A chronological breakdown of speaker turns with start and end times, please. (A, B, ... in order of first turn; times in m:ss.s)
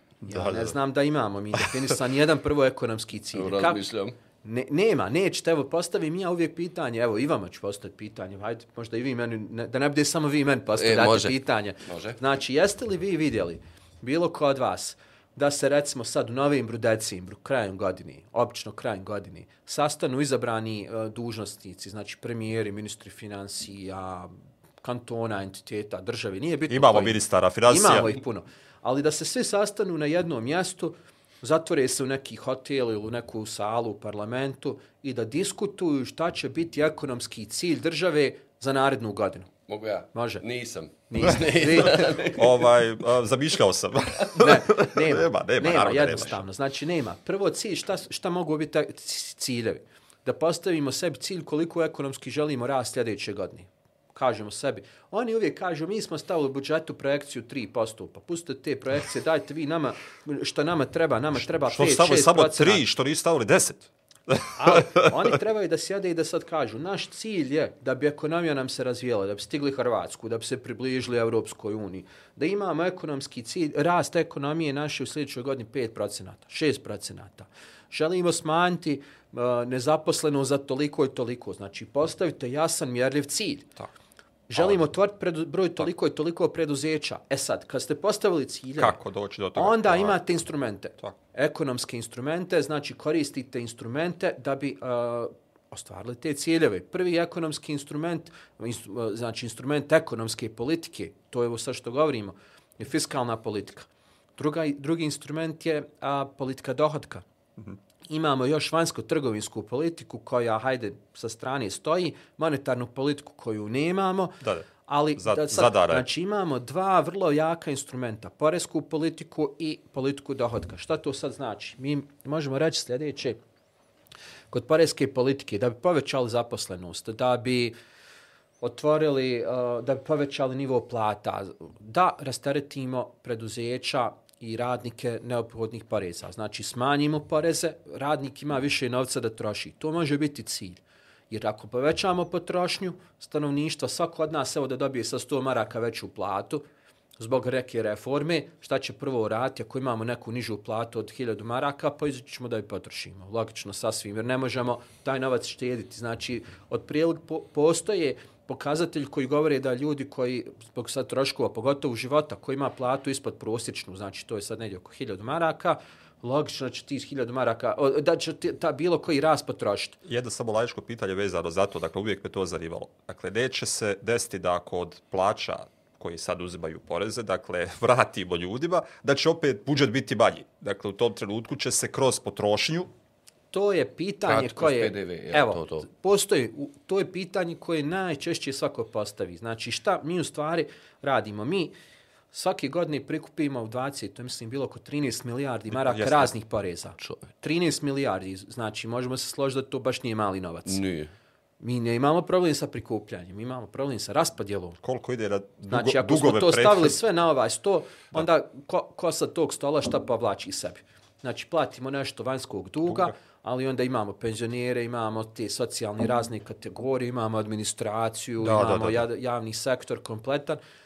0:00.2-0:00.7 A
0:00.2-0:03.8 B
0:03.3-0:04.2 C
0:04.4-0:39.5 B
0:10.8-0:12.2 C
0:26.7-0:28.1 A
0:39.7-0:42.6 C
0:40.1-0:40.4 B
0:41.1-0:42.2 B
0:42.3-0:46.4 A
0:44.4-1:02.8 B
1:01.6-1:05.1 A
1:04.5-1:23.7 B
1:24.5-1:29.0 B
1:28.8-1:30.2 A
1:29.5-1:47.2 B
1:48.1-2:03.4 B
1:54.4-1:54.6 A
1:55.2-1:56.1 A
2:04.5-2:07.7 B
2:08.6-2:26.6 B
2:27.2-2:50.0 B
2:50.0-3:02.9 A
3:03.5-3:11.7 B
3:04.2-3:05.8 C
3:12.3-3:20.8 B
3:15.7-3:16.3 A
3:20.6-3:21.1 C
3:21.6-3:24.8 B
3:24.8-3:27.0 A
3:25.7-3:40.6 B
3:32.8-3:33.1 A
3:38.4-3:39.0 A